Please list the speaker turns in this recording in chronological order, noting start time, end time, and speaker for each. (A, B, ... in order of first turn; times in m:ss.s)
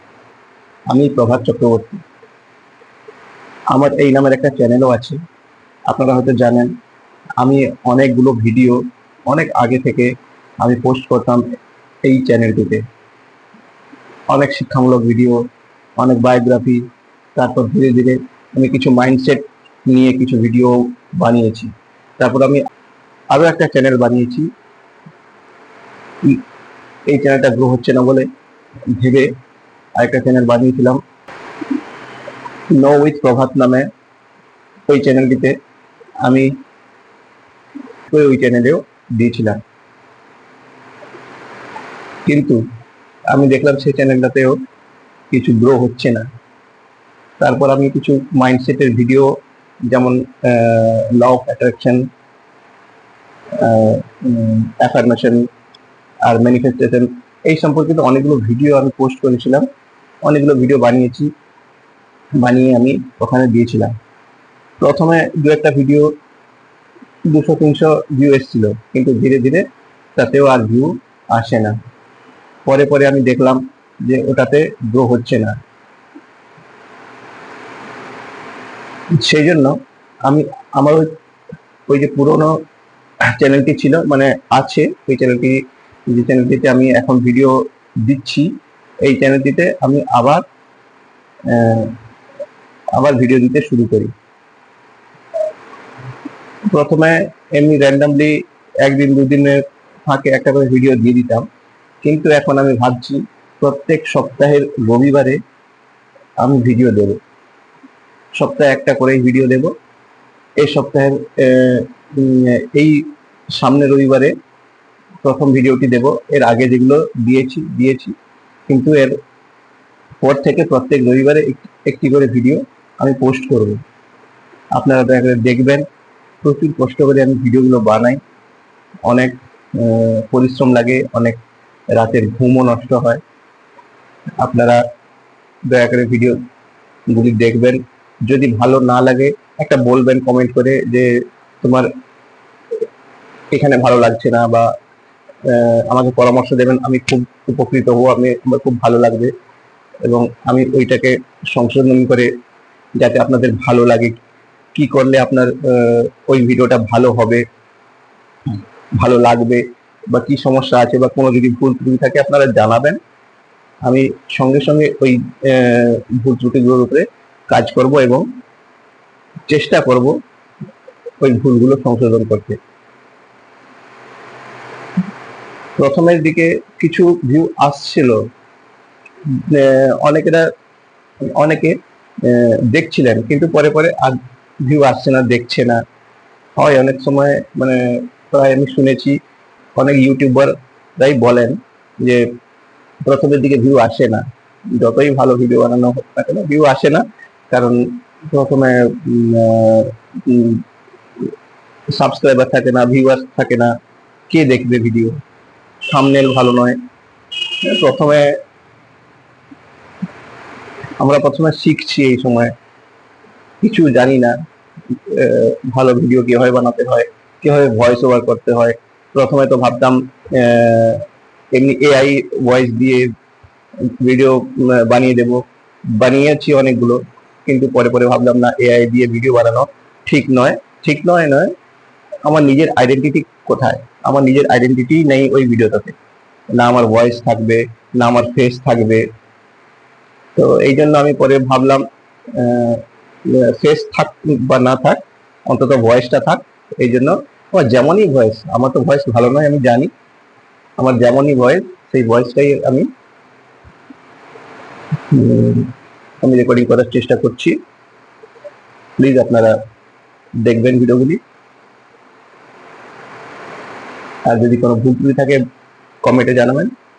0:00.9-0:02.0 A
0:03.7-0:05.2 A
0:05.9-0:06.7 A
0:07.4-0:11.4 A
0:12.0-0:12.8 A
0:14.3-0:15.4 A
0:16.0-0:22.6 A
0:23.3-0:24.5 A
0:27.0-0:28.3 A
0:28.9-0:29.3 A
0:30.0-0:31.0 A
0:32.7-0:33.9 A
0:34.9-0:35.6 A
0:36.2-0:36.5 A
0:38.1-0:39.6 A
0:42.2-0:42.6 A
0:43.3-0:44.6 A
0:45.3-0:46.3 A
0:47.4-0:49.4 A
0:49.9-0:52.1 A
0:53.5-0:55.5 A
0:56.2-0:59.7 A
1:00.2-1:01.3 A
1:02.4-1:03.9 A
1:04.8-1:06.1 A
1:07.2-1:11.8 A
1:12.6-1:15.6 A
1:19.1-1:21.1 A
1:21.9-1:22.6 A
1:23.2-1:30.4 A
1:31.4-1:32.0 A
1:32.9-1:34.1 A
1:36.7-1:41.4 A
1:42.0-1:45.4 A
1:46.4-1:47.2 A
1:48.4-1:49.7 A
1:50.6-1:54.3 A
1:55.2-1:58.2 A
1:58.7-1:59.2 A
2:00.2-2:03.8 A
2:04.7-2:05.8 A
2:06.4-2:08.2 A
2:09.0-2:11.4 A
2:11.9-2:13.2 A
2:14.4-2:14.8 A
2:15.7-2:16.4 A
2:17.1-2:21.9 A
2:23.5-2:24.7 A
2:25.4-2:29.3 A
2:30.0-2:32.3 A
2:33.0-2:34.2 A
2:34.7-2:37.4 A
2:38.5-2:43.0 A
2:43.8-2:48.3 A
2:49.5-2:50.2 A
2:51.2-2:52.6 A
2:55.8-2:58.2 A
2:59.3-3:00.5 A
3:01.3-3:05.8 A
3:06.6-3:09.2 A
3:09.8-3:12.2 A
3:13.0-3:20.6 A
3:21.9-3:23.7 A
3:24.3-3:25.2 A
3:25.9-3:26.8 A
3:27.6-3:28.4 A
3:31.0-3:32.5 A
3:33.6-3:34.4 A
3:34.9-3:43.1 A
3:43.8-3:51.5 A
3:52.2-3:56.0 A
3:56.5-3:59.1 A
4:00.4-4:09.9 A
4:10.8-4:12.9 A
4:15.1-4:17.6 A
4:19.0-4:19.6 A
4:20.4-4:21.2 A
4:24.2-4:25.4 A
4:26.0-4:26.7 A